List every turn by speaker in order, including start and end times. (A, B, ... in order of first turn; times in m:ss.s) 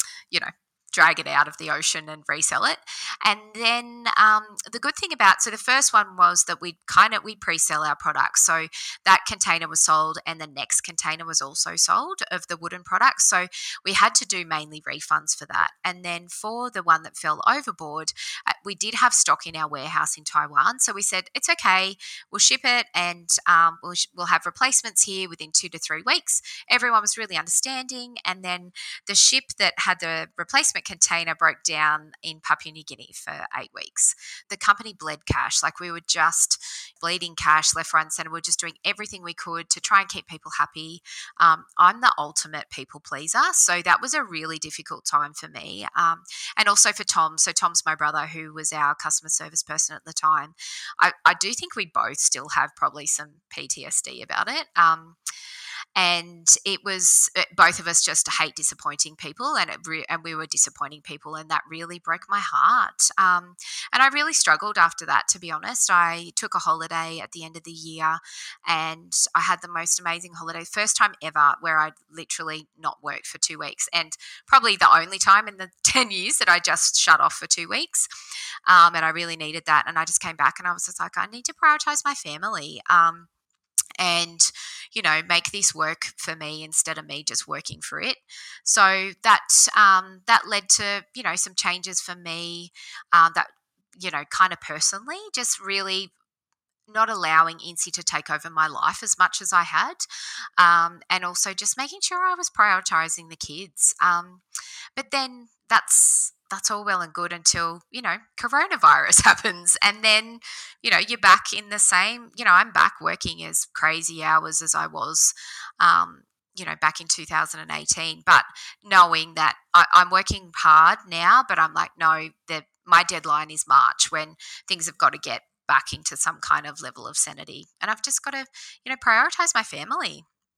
0:00.3-0:55.2 A
0:56.0-1:18.0 A
1:18.6-1:23.3 A
1:24.0-1:36.1 A
1:36.9-1:40.0 A
1:40.6-1:44.4 A
1:45.0-2:10.2 A